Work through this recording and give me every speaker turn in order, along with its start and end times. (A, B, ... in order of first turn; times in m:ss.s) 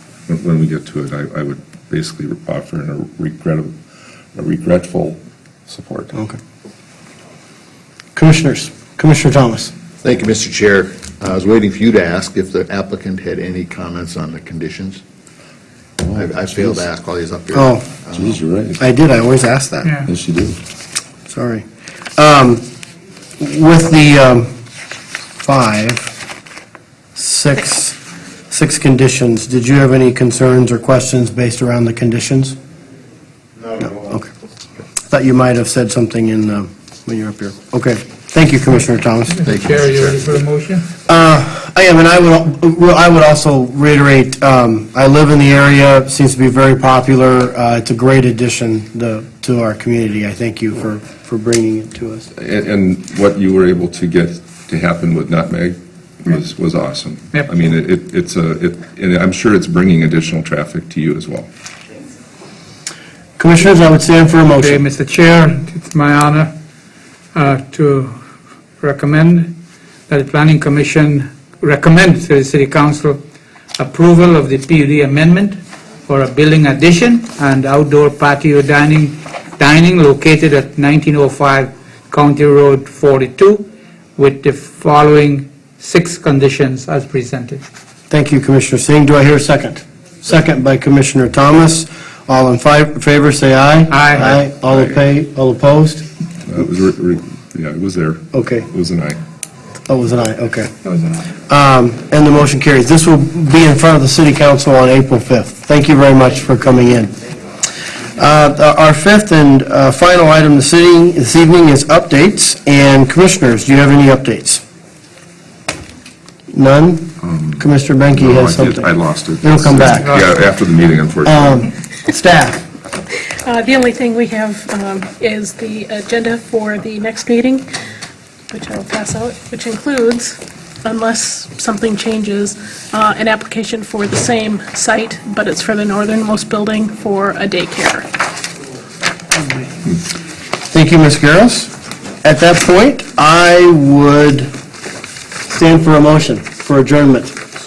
0:00.3-0:03.7 A
0:04.3-0:06.1 A
0:08.1-0:09.7 B
0:10.0-0:15.0 C
0:16.0-0:16.8 A
0:16.1-0:18.4 C
0:17.5-0:17.9 B
0:18.1-0:18.8 A
0:18.8-0:20.0 B
0:20.0-0:20.6 A
0:21.3-0:21.6 B
0:22.2-0:22.6 B
0:23.4-0:24.5 B
0:25.4-0:26.1 B
0:27.2-0:28.0 B
0:28.5-0:32.5 B
0:33.8-0:34.3 B
0:35.1-0:39.4 B
0:39.3-0:40.8 D
0:39.4-0:40.3 C
0:41.0-0:52.2 B
0:52.4-1:01.5 A
1:03.4-1:04.8 B
1:04.6-1:06.5 D
1:07.3-1:08.1 D
1:08.8-1:09.6 D
1:10.1-1:13.2 D
1:13.8-1:27.6 D
1:28.1-1:36.0 B
1:33.9-1:34.2 D
1:34.2-1:34.9 A
1:36.5-1:39.2 A
1:38.3-1:38.7 B
1:39.9-1:40.7 B
1:40.8-1:41.2 D
1:41.5-1:47.1 B
1:48.2-1:54.6 B
1:56.5-1:58.9 B
1:57.3-1:57.6 A
1:58.1-2:01.7 A
1:59.4-2:00.1 B
2:00.0-2:00.3 D
2:01.2-2:02.6 B
2:03.4-2:07.7 E
2:08.5-2:18.1 E
2:20.7-2:21.7 B
2:22.2-2:24.5 B
2:25.5-2:27.3 B